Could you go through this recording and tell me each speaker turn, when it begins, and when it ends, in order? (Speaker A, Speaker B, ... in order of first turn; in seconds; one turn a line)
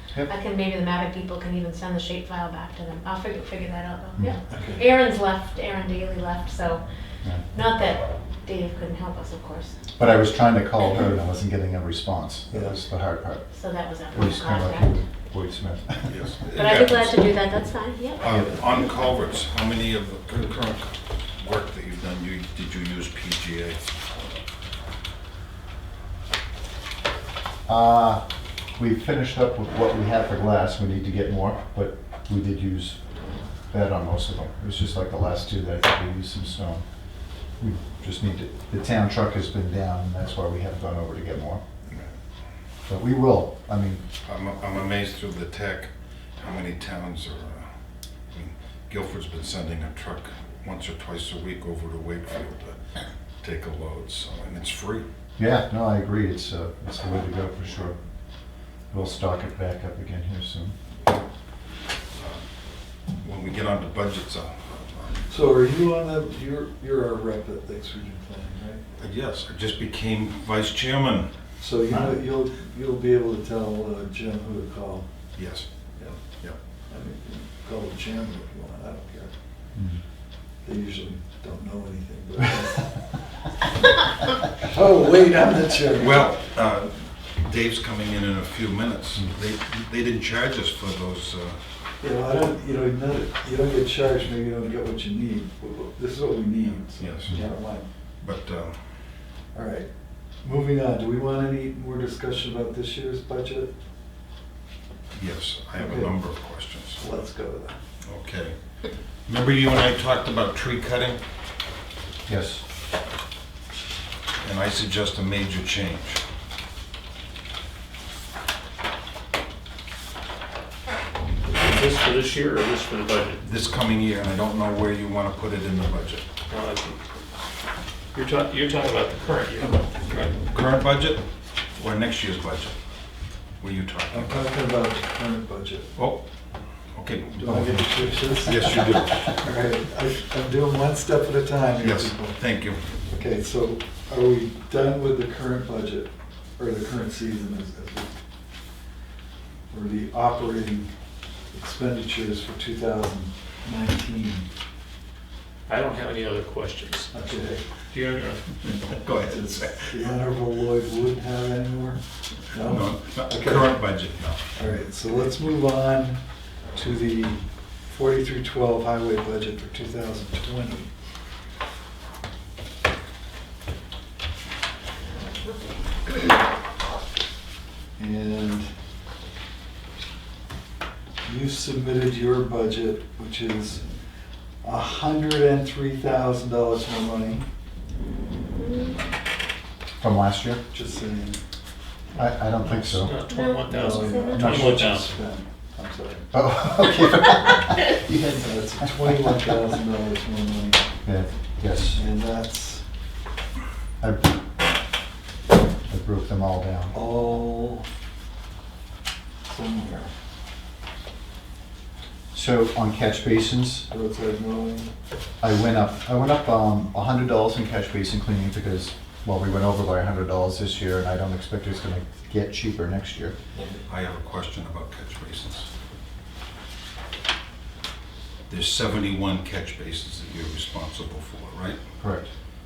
Speaker A: 0.2-6.8
Speaker B: 4.5-4.8
Speaker A: 7.5-9.8
Speaker C: 10.0-13.4
Speaker B: 12.5-12.8
Speaker A: 13.5-14.9
Speaker C: 14.1-16.1
Speaker D: 16.1-17.2
Speaker A: 16.5-18.2
Speaker D: 18.2-23.9
Speaker C: 18.2-18.6
Speaker C: 27.7-28.2
Speaker C: 28.8-33.0
Speaker C: 33.7-36.8
Speaker C: 37.6-41.6
Speaker D: 41.9-42.1
Speaker C: 42.9-44.0
Speaker D: 44.2-47.6
Speaker D: 48.3-52.8
Speaker D: 53.4-55.0
Speaker C: 55.4-58.0
Speaker C: 58.9-60.8
Speaker D: 63.2-65.2
Speaker B: 65.3-68.8
Speaker D: 69.0-71.3
Speaker B: 71.6-75.1
Speaker D: 75.3-75.7
Speaker B: 76.9-79.3
Speaker B: 80.6-83.1
Speaker B: 84.5-86.3
Speaker D: 85.9-91.6
Speaker B: 92.0-97.9
Speaker D: 97.0-97.5
Speaker D: 98.2-98.8
Speaker B: 99.5-99.9
Speaker B: 100.4-103.7
Speaker D: 105.1-107.0
Speaker B: 105.8-106.2
Speaker B: 107.0-107.8
Speaker D: 108.0-108.5
Speaker D: 109.3-111.2
Speaker C: 112.3-112.6
Speaker D: 114.4-116.2
Speaker E: 121.5-123.4
Speaker D: 123.4-126.2
Speaker E: 126.5-127.0
Speaker E: 128.1-130.3
Speaker D: 130.4-131.2
Speaker D: 131.7-132.8
Speaker D: 133.6-134.6
Speaker B: 134.1-135.9
Speaker D: 135.9-136.2
Speaker D: 136.9-137.6
Speaker B: 137.4-142.4
Speaker C: 137.4-138.1
Speaker D: 138.3-139.4
Speaker D: 141.8-142.8
Speaker B: 143.1-148.1
Speaker B: 149.7-150.9
Speaker B: 151.5-154.5
Speaker E: 155.7-157.1
Speaker B: 157.1-157.6
Speaker E: 157.9-158.6
Speaker D: 158.7-159.9
Speaker B: 158.7-163.8
Speaker D: 162.6-164.4
Speaker B: 164.5-166.2
Speaker B: 166.7-170.9
Speaker B: 178.0-178.7
Speaker B: 181.2-183.8
Speaker B: 184.6-187.5
Speaker A: 188.6-189.0
Speaker C: 190.0-190.6
Speaker B: 190.7-191.4
Speaker C: 192.1-193.2
Speaker E: 192.6-195.1
Speaker A: 193.3-194.4
Speaker B: 193.7-196.3
Speaker C: 194.1-194.9
Speaker C: 196.3-199.1
Speaker B: 198.3-200.8
Speaker C: 201.0-202.0
Speaker B: 201.9-202.8
Speaker C: 204.0-204.3
Speaker C: 205.9-206.9
Speaker B: 206.9-207.8
Speaker B: 209.5-210.1
Speaker C: 212.3-213.9
Speaker B: 213.9-214.9
Speaker C: 215.4-223.3
Speaker B: 223.5-223.8
Speaker D: 223.9-225.7
Speaker D: 228.5-231.8
Speaker C: 232.0-232.3